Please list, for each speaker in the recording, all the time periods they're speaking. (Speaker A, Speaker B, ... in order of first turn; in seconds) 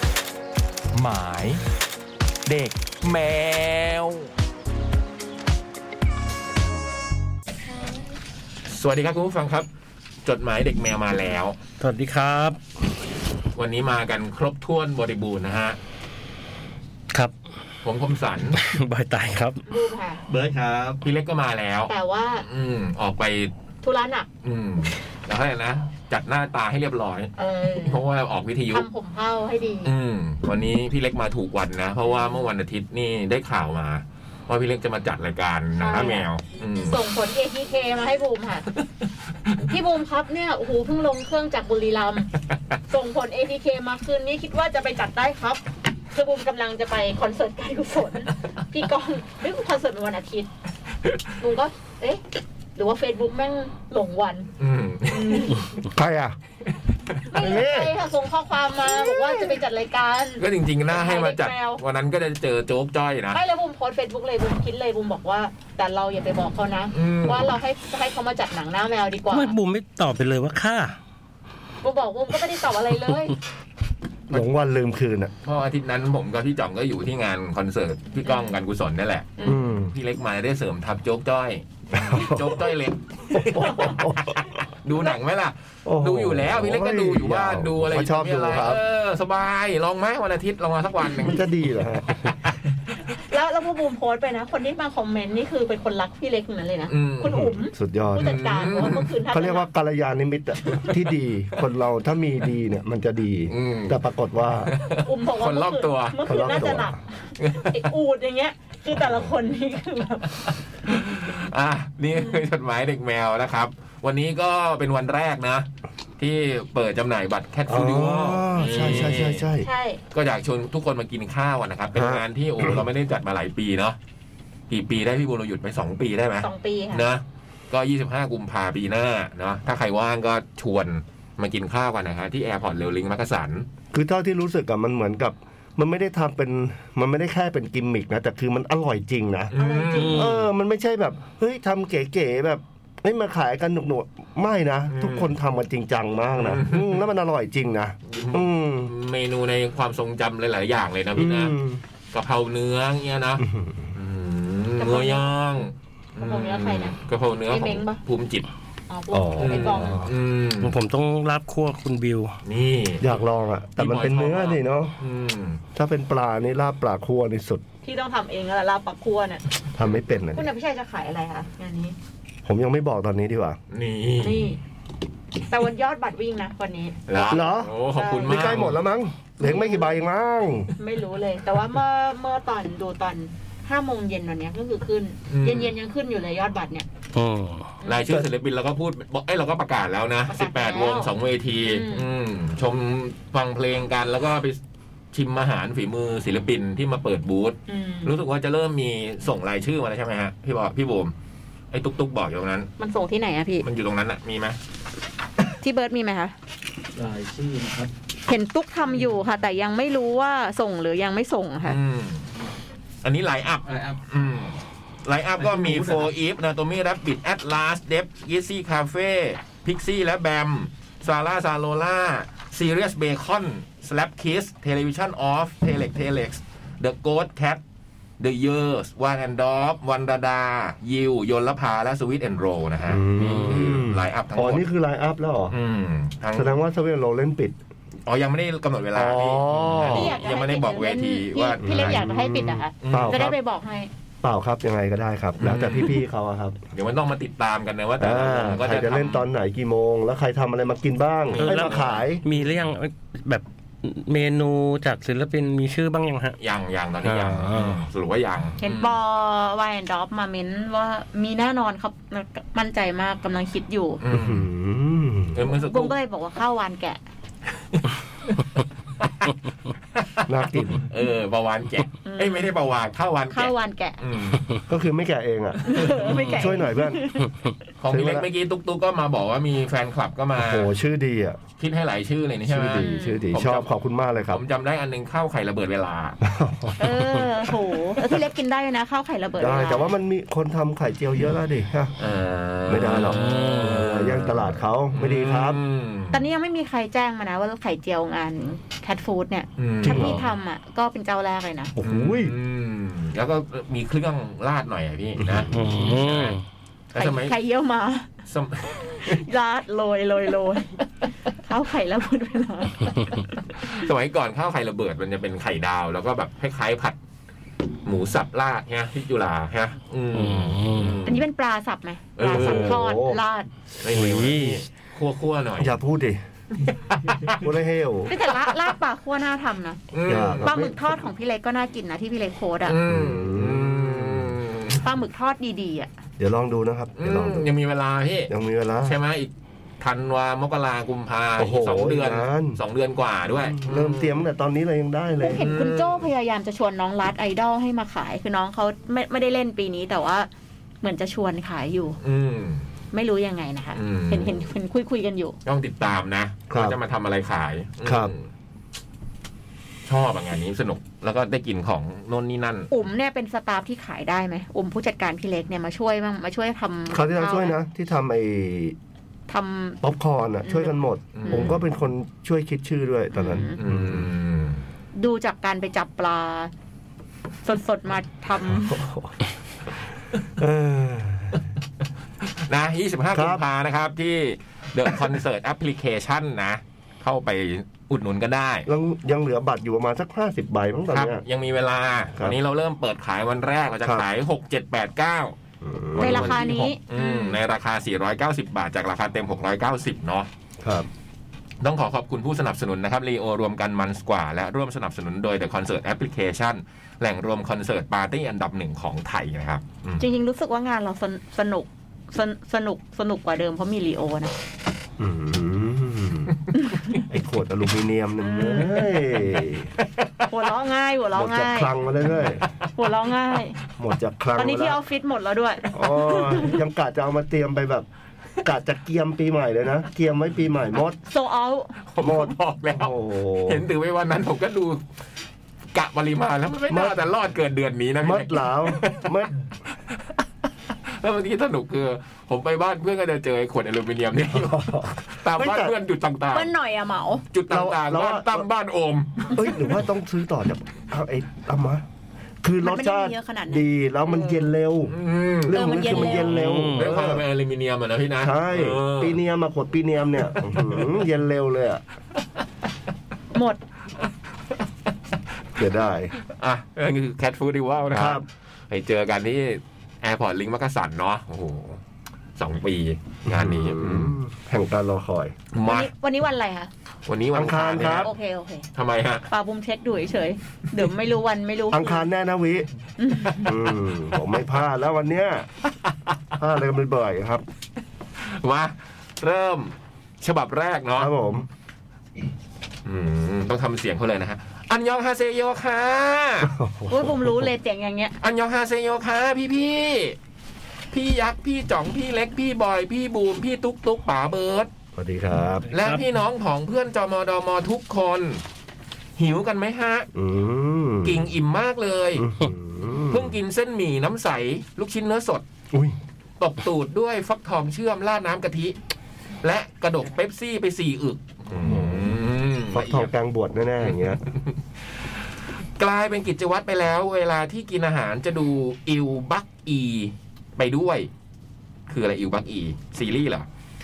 Speaker A: 0.9-1.6, 2.5-4.3, 8.7-9.7, 10.2-11.6, 13.5-15.8, 17.8-18.6, 21.0-21.9, 22.4-23.5, 24.4-28.9, 29.8-37.0, 54.6-55.6, 60.4-63.4, 66.9-67.5, 75.4-91.4, 96.9-97.5, 98.2-99.1, 103.5-104.0, 104.7-106.2, 107.4-107.9, 110.9-119.5, 120.1-124.0, 124.7-133.7, 139.5-140.3, 144.9-145.3, 146.4-147.0, 148.1-151.5, 152.1-158.5, 159.4-160.7, 162.4-163.1, 163.8-165.6, 173.7-174.5, 177.1-178.8, 185.3-185.7, 187.8-194.6, 195.1-201.1, 201.7-202.7, 203.6-204.6, 211.6-212.3, 213.0-227.6, 228.2-234.6, 235.5-236.5, 238.1-242.1, 242.8-243.2, 245.4-246.0, 246.7-249.2, 251.3-252.0, 256.4-258.9, 264.0-264.5, 265.3-265.9, 269.9-274.5, 277.8-280.7, 281.6-283.7, 284.3-286.2, 292.0-296.2, 299.6-300.2, 301.8-306.4, 306.9-307.3, 308.3-309.2, 313.6-317.0, 317.8-321.2, 322.2-322.8, 323.8-325.7, 326.6-327.4, 328.1-328.5, 329.9-330.5, 332.6-334.8, 336.9-338.3, 338.8-344.2, 345.3-346.1, 352.0-352.6, 353.8-354.5, 355.4-358.2, 359.9-362.7, 371.1-371.6, 373.6-374.6, 382.3-388.7, 390.9-395.4, 395.9-400.3, 401.6-410.0, 431.8-432.9, 433.4-434.8, 435.7-439.1, 440.9-446.5, 447.3-449.8, 454.9-459.2, 466.4-471.8, 472.4-474.1, 475.5-475.9, 477.1-478.1, 478.7-479.3, 488.2-491.1, 492.8-496.5, 498.2-500.2, 500.9-504.7, 505.7-508.4, 509.2-510.1, 511.0-512.2, 513.1-515.4, 516.4-518.8, 519.4-523.1, 523.8-524.5, 525.8-531.1, 531.9-533.5
Speaker B: 11.8-12.6, 18.5-19.6, 69.3-71.0, 139.9-140.4, 160.6-162.3, 187.1-187.7, 251.4-256.4, 257.2-257.8, 293.0-293.9, 305.5-306.4, 320.1-321.0, 323.9-324.6, 456.3-457.0, 505.7-506.0
Speaker C: 19.7-20.2, 21.9-22.4, 23.8-24.3, 27.4-28.0, 28.7-29.9, 32.0-32.4, 35.8-36.3, 36.8-38.7, 39.6-42.3, 42.9-50.5, 51.4-52.2, 52.8-54.5, 55.1-55.6, 57.3-61.8, 63.3-69.5, 71.8-73.3, 78.2-78.5, 83.6-83.9, 93.1-99.7, 104.9-111.3, 118.6-119.1, 119.6-120.0, 126.4-127.0, 139.5-140.3, 154.8-155.3, 156.2-157.0, 157.5-158.0, 158.9-160.1, 167.8-169.4, 170.3-171.9, 174.2-174.6, 175.5-178.6, 179.4-180.0, 180.8-186.9, 187.8-188.1, 190.3-191.1, 191.7-192.1, 197.7-198.2, 202.8-203.6, 205.6-206.3, 208.3-211.8, 239.8-243.9, 258.6-264.0, 265.5-267.0, 272.0-272.5, 273.3-274.0, 275.6-277.3, 282.8-283.2, 286.8-289.9, 296.1-301.7, 306.9-308.1, 309.0-310.8, 311.4-313.7, 321.0-323.5, 328.1-329.8, 330.4-332.8, 334.8-335.9, 345.2-350.3, 350.8-352.0, 352.9-355.4, 362.7-367.5, 369.3-369.8, 370.4-371.5, 373.1-373.6, 374.9-376.5, 377.4-378.8, 396.0-397.4, 410.0-414.3, 416.7-416.9, 418.2-419.0, 420.3-421.7, 422.8-423.6, 424.4-426.6, 431.1-431.8, 446.3-447.2, 452.6-453.6, 455.5-456.4, 463.3-463.6, 475.6-476.7, 477.8-478.6, 479.3-482.1, 483.0-483.5, 496.9-498.1
Speaker D: 20.3-21.0, 206.9-207.9, 213.6-214.0, 215.4-216.1
Speaker E: 55.9-56.4, 57.3-57.9, 58.9-59.6, 74.3-75.3, 79.4-79.9, 81.9-82.7, 83.3-84.4, 85.8-88.8, 91.1-92.3, 97.7-104.7, 106.2-107.0, 117.7-119.7, 121.9-122.8, 133.9-139.5, 140.0-148.9, 151.1-151.8, 153.4-153.9, 159.1-160.1, 163.0-164.9, 165.7-167.6, 169.7-170.4, 172.4-173.6, 177.3-177.7, 178.2-180.7, 232.9-235.6, 236.3-237.5, 238.9-240.2, 241.6-243.3, 244.2-246.6, 248.0-252.2, 257.1-257.4, 264.1-265.4, 270.2-270.8, 274.7-277.1, 277.9-278.3, 280.4-281.4, 282.4-284.4, 286.2-287.1, 289.4-292.0, 292.7-295.6, 299.8-300.2, 301.7-302.3, 305.2-305.5, 322.2-323.2, 325.6-326.2, 327.3-328.1, 330.1-330.9, 332.9-334.4, 336.2-337.5, 338.3-339.0, 341.4-342.6, 343.4-345.4, 356.5-356.8, 357.8-358.1, 366.9-368.8, 369.8-374.1, 378.5-379.1, 380.3-381.4, 383.1-383.4, 388.6-391.2, 395.6-396.5, 400.6-400.9, 415.0-416.3, 417.0-419.7, 421.1-422.4, 423.8-424.8, 425.7-427.9, 428.4-431.0, 432.0-433.6, 436.7-437.0, 438.0-439.3, 444.3-445.7, 447.5-448.5, 449.3-451.8, 452.4-457.2, 458.2-461.8, 465.6-466.1, 467.9-468.2, 473.3-475.4, 477.3-478.1, 481.7-482.7, 483.4-485.5, 486.4-487.4, 490.9-491.5, 496.4-497.5, 504.9-505.7, 510.1-511.2, 512.2-513.3, 515.7-516.0, 521.6-522.1, 522.7-524.2